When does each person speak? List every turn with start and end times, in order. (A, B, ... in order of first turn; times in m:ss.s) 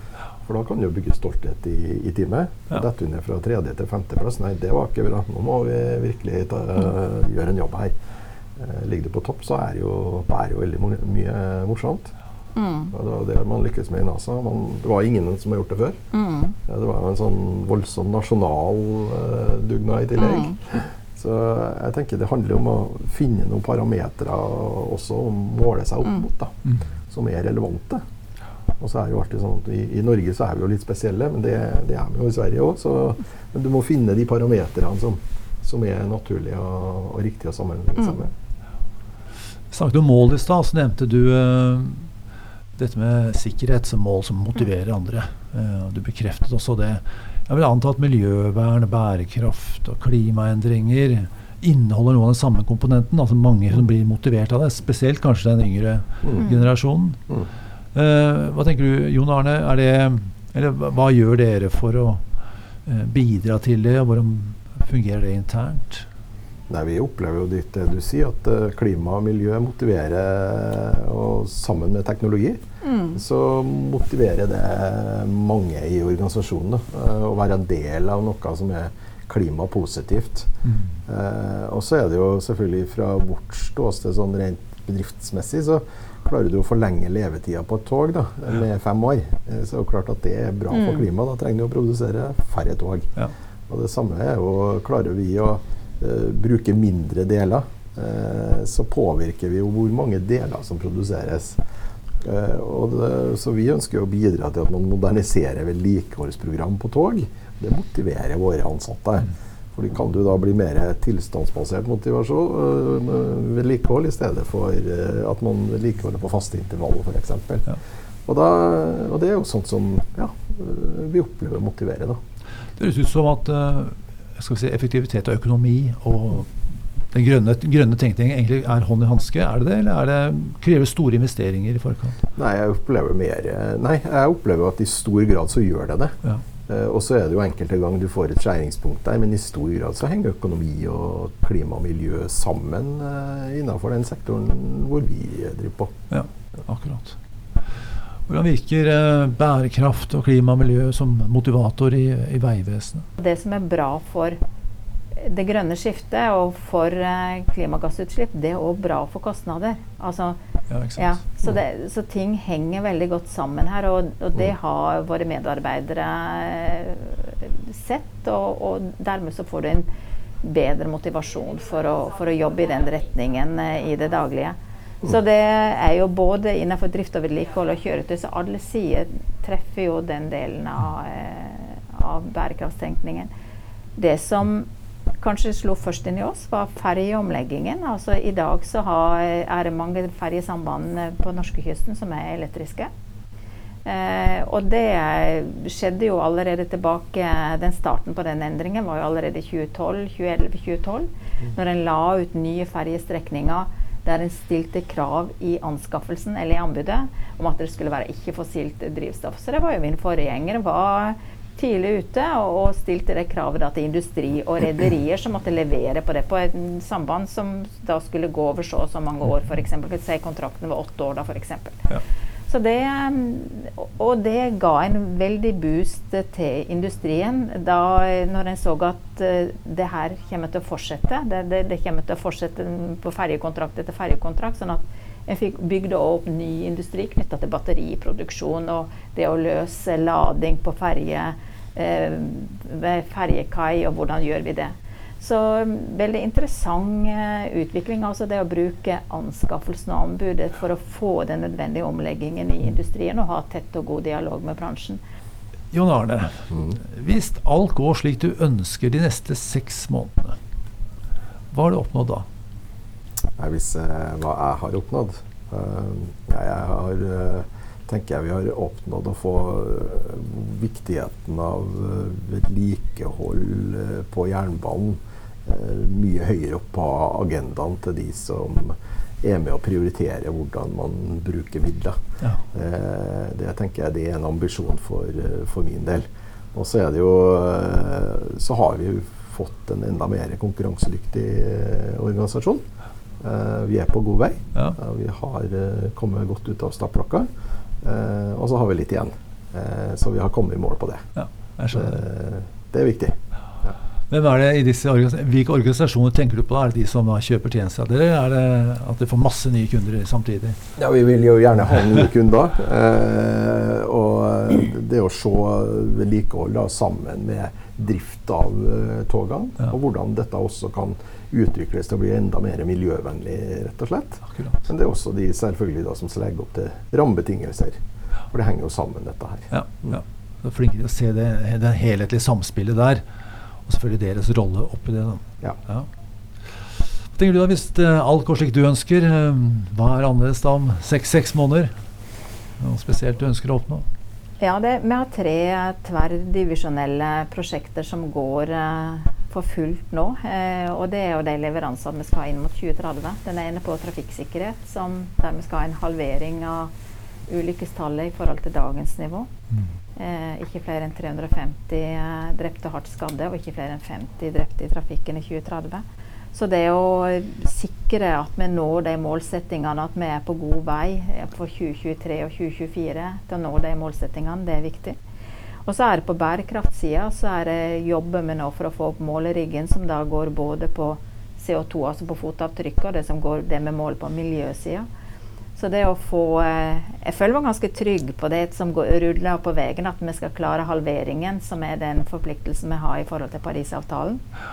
0:00.4-0:07.9 A
0:08.6-0:12.1 A
0:12.6-0:12.9 B
0:12.9-0:16.0 A
0:16.1-0:16.6 B
0:16.7-0:28.0 A
0:20.2-0:20.6 B
0:28.8-0:38.3 A
0:39.7-0:42.1 C
0:42.8-0:57.2 C
0:56.4-0:56.6 B
0:57.9-1:02.2 C
1:02.8-1:06.1 C
1:06.7-1:12.6 A
1:12.8-1:13.2 B
1:13.1-1:20.5 A
1:20.6-1:21.0 C
1:21.1-1:33.1 A
1:30.7-1:31.1 B
1:33.7-1:41.6 A
1:42.2-1:57.7 A
1:58.2-2:02.2 A
2:02.8-2:06.6 C
2:07.1-2:12.2 C
2:12.4-2:26.0 A
2:26.1-2:27.2 C
2:28.3-2:33.0 C
2:33.2-2:34.4 B
2:35.1-2:40.4 B
2:40.7-2:41.2 C
2:41.0-2:49.8 B
2:50.4-3:03.3 B
3:04.0-3:04.7 B
3:05.2-3:12.9 B
3:13.8-3:41.9 B
3:42.5-4:15.0 B
4:15.7-4:20.4 C
4:21.5-4:22.2 C
4:23.4-4:42.0 A
4:42.5-4:52.6 A
4:53.2-4:57.3 A
4:57.8-5:01.0 A
5:01.2-5:02.0 C
5:01.7-5:03.7 A
5:04.1-5:10.6 C
5:10.8-5:27.8 A
5:24.3-5:24.6 C
5:28.3-5:30.0 A
5:29.5-5:33.0 C
5:33.6-5:35.9 C
5:37.1-5:41.7 C
5:42.6-5:43.8 C
5:44.4-5:56.7 B
5:57.3-5:59.3 B
6:00.0-6:15.0 B
6:15.6-6:24.8 B
6:25.6-6:34.2 B